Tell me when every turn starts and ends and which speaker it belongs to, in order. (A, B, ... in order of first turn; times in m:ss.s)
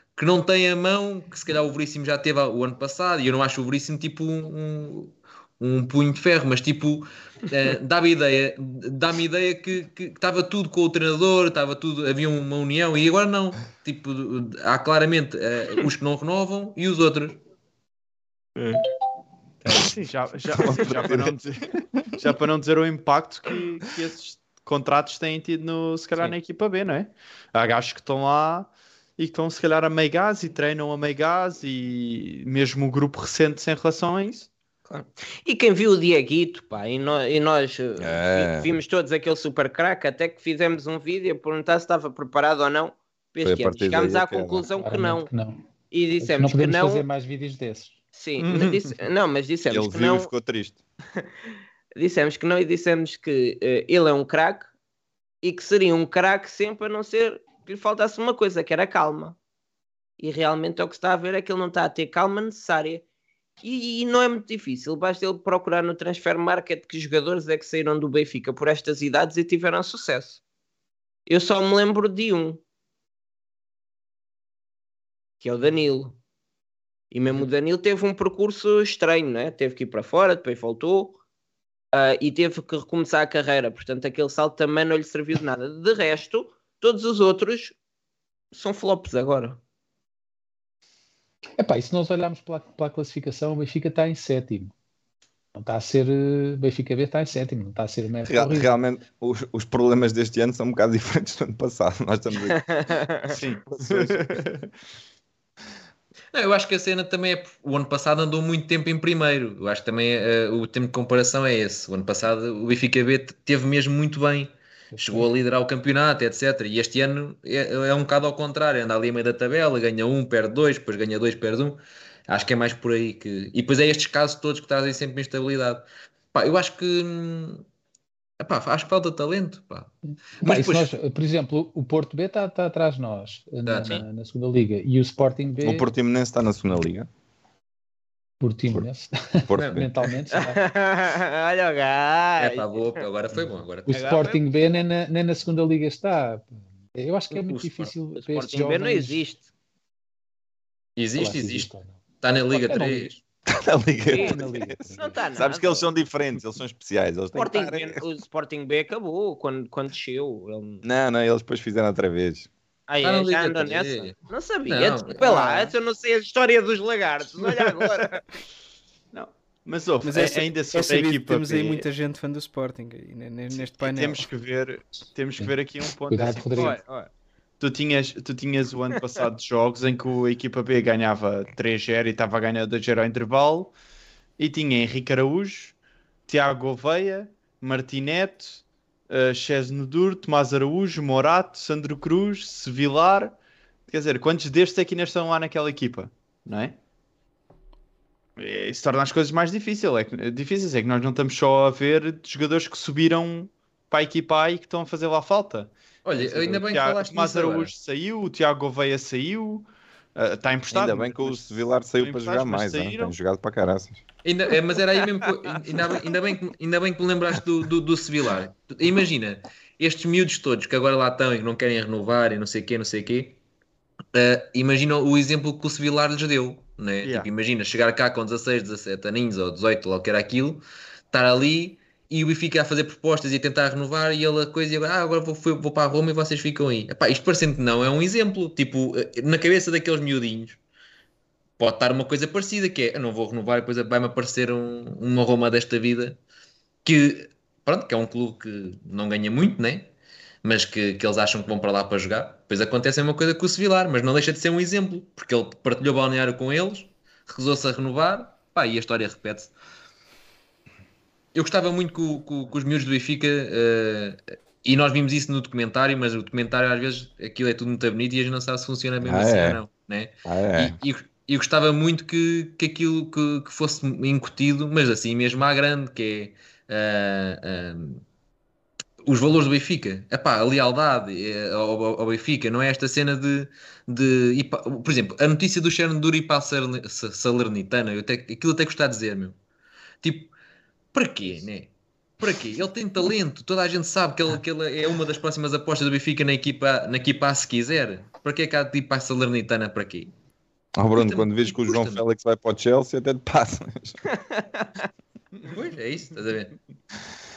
0:00.2-0:17.4 A
0:19.8-0:21.6 B
0:20.5-0:21.4 C
0:22.2-0:34.5 B
0:34.9-0:45.3 D
0:38.0-0:38.7 C
0:43.4-0:44.7 C
0:44.8-0:45.6 E
0:45.9-0:47.0 D
0:46.2-0:47.9 E
0:48.1-0:50.3 D
0:48.4-0:49.0 B
0:49.7-0:50.8 C
0:52.0-0:54.7 D
0:55.4-0:59.4 D
1:00.2-1:03.0 D
1:03.6-1:10.4 D
1:11.3-1:12.6 D
1:15.4-1:16.2 D
1:17.1-1:21.2 D
1:21.9-1:27.7 D
1:28.5-1:29.6 D
1:31.6-1:34.7 E
1:35.5-1:38.7 E
1:38.3-1:42.6 C
1:42.6-1:43.2 D
1:43.3-1:44.4 C
1:43.3-1:44.7 B
1:46.3-2:07.6 A
1:54.9-1:55.3 E
2:08.4-2:10.9 A
2:10.4-2:15.9 E
2:13.6-2:14.0 A
2:15.6-2:17.1 C
2:18.4-2:20.6 E
2:19.5-2:20.0 C
2:19.6-2:19.8 A
2:20.3-2:23.0 D
2:22.4-2:24.1 A
2:23.9-2:29.2 E
2:23.9-2:24.4 D
2:27.3-2:27.9 A
2:28.2-2:29.4 D
2:31.0-2:31.7 A
2:31.2-2:32.0 E
2:32.2-2:33.2 A
2:32.5-2:33.1 E
2:33.5-2:38.1 C
2:34.1-2:34.4 D
2:34.1-2:35.1 E
2:34.9-2:35.9 D
2:37.3-2:40.8 D
2:40.8-2:42.5 C
2:42.9-2:48.2 D
2:43.0-2:44.1 A
2:44.7-2:45.3 A
2:49.1-2:51.8 B
2:50.0-2:54.3 F
2:53.6-2:56.8 B
2:56.1-2:56.8 E
2:56.5-2:57.1 D
2:57.6-3:03.7 B
3:04.4-3:05.8 B
3:06.3-3:13.4 B
3:13.9-3:16.8 B
3:18.4-3:33.1 B
3:26.0-3:27.7 A
3:30.7-3:34.0 C
3:34.2-3:43.4 A
3:44.1-4:00.6 A
3:47.0-3:47.3 B
4:01.6-4:06.2 A
4:06.8-4:09.9 A
4:10.4-4:19.5 A
4:21.3-4:38.0 A
4:29.0-4:29.6 C
4:30.2-4:30.8 C
4:39.0-4:49.3 A
4:50.0-4:50.3 A
4:50.9-5:00.1 A
5:00.8-5:04.0 C
5:01.0-5:02.0 A
5:04.1-5:04.8 D
5:05.5-5:06.5 A